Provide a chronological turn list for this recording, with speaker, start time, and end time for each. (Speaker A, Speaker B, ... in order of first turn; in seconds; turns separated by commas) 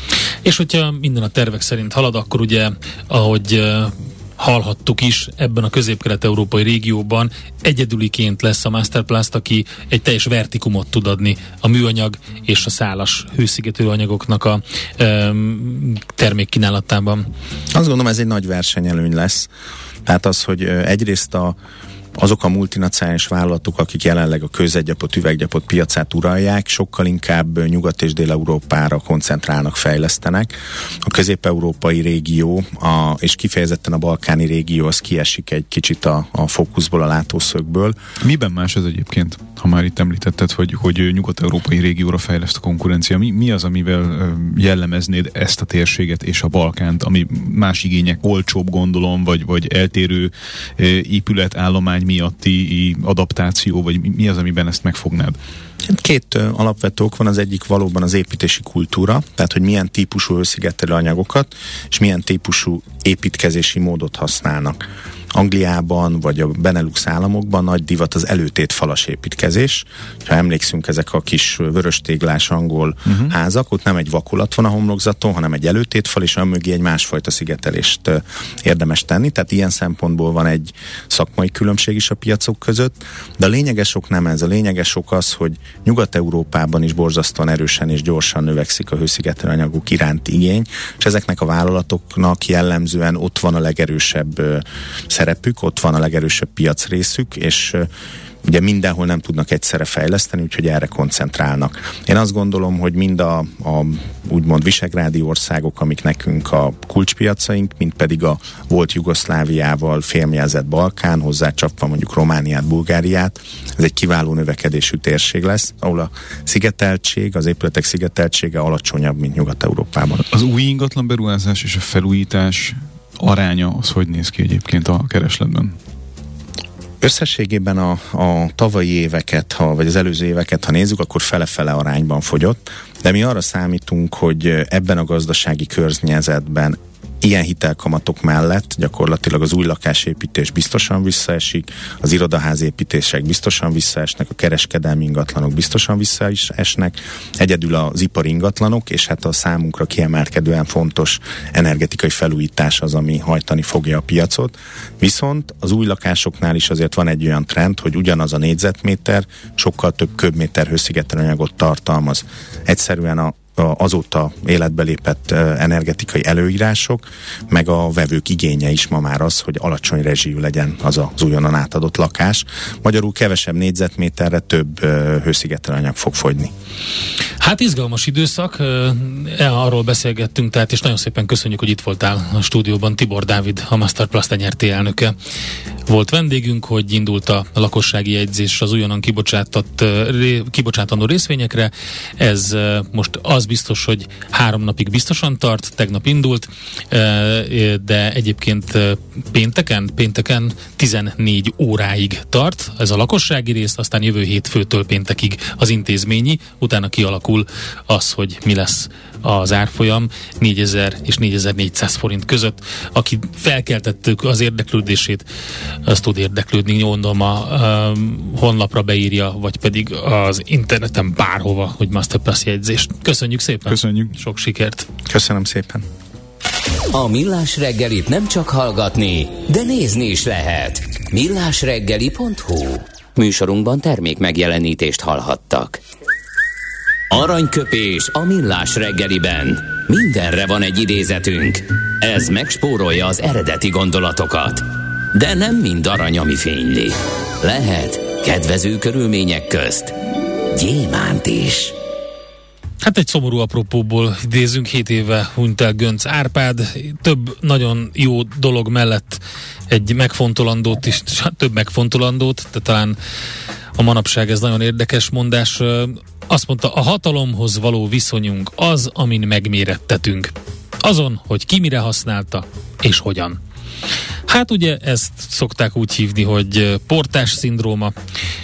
Speaker A: 0.4-17.3, Speaker B: 17.7-19.5, Speaker B: 20.1-21.6, Speaker B: 22.1-38.0, Speaker C: 38.2-55.4, Speaker B: 55.8-64.8, Speaker B: 65.3-97.9, Speaker C: 73.1-73.3, Speaker B: 98.4-120.2, Speaker C: 120.3-125.8, Speaker B: 127.0-176.5, Speaker A: 177.4-185.1, Speaker A: 185.9-215.2, Speaker A: 215.8-224.8, Speaker C: 223.7-224.2, Speaker B: 225.1-225.8, Speaker D: 226.9-235.8, Speaker D: 237.1-249.9, Speaker D: 250.5-251.7, Speaker A: 252.8-263.0, Speaker A: 263.8-273.4, Speaker A: 274.3-277.9